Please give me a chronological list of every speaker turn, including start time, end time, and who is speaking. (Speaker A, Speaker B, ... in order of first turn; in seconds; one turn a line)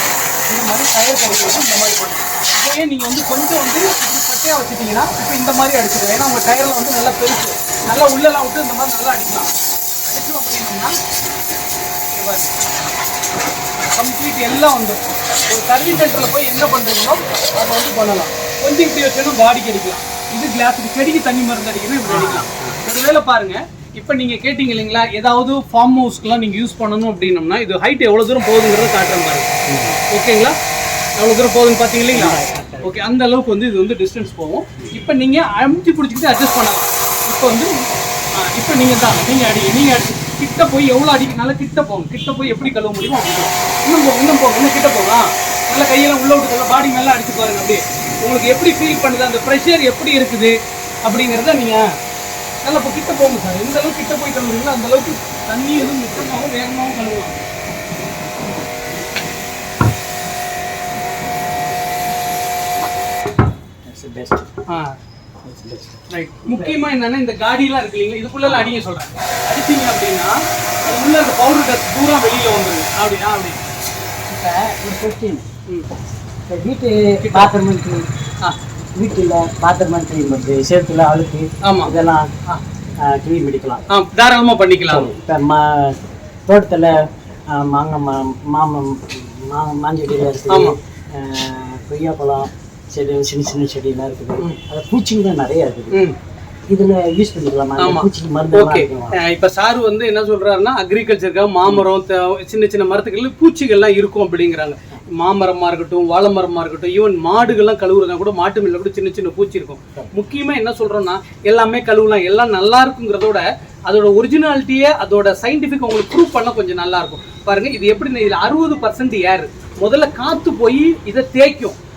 Speaker A: 0.4-9.5
Speaker A: 10.1-11.0
Speaker A: 12.1-12.6
Speaker A: 13.8-30.6
Speaker B: 22.1-22.8
Speaker B: 29.7-30.0
Speaker A: 31.2-51.9
Speaker B: 32.1-33.0
Speaker A: 52.6-57.3
Speaker B: 63.9-64.5
Speaker A: 64.7-65.0
Speaker B: 65.4-66.8
Speaker A: 66.1-73.7
Speaker B: 74.3-75.5
Speaker B: 76.5-78.1
Speaker A: 77.2-77.6
Speaker B: 78.9-82.3
Speaker A: 81.6-82.6
Speaker B: 83.0-83.8
Speaker A: 83.9-85.1
Speaker B: 84.9-87.0
Speaker B: 87.5-96.0
Speaker A: 90.5-90.8
Speaker B: 96.7-99.2
Speaker A: 97.8-121.8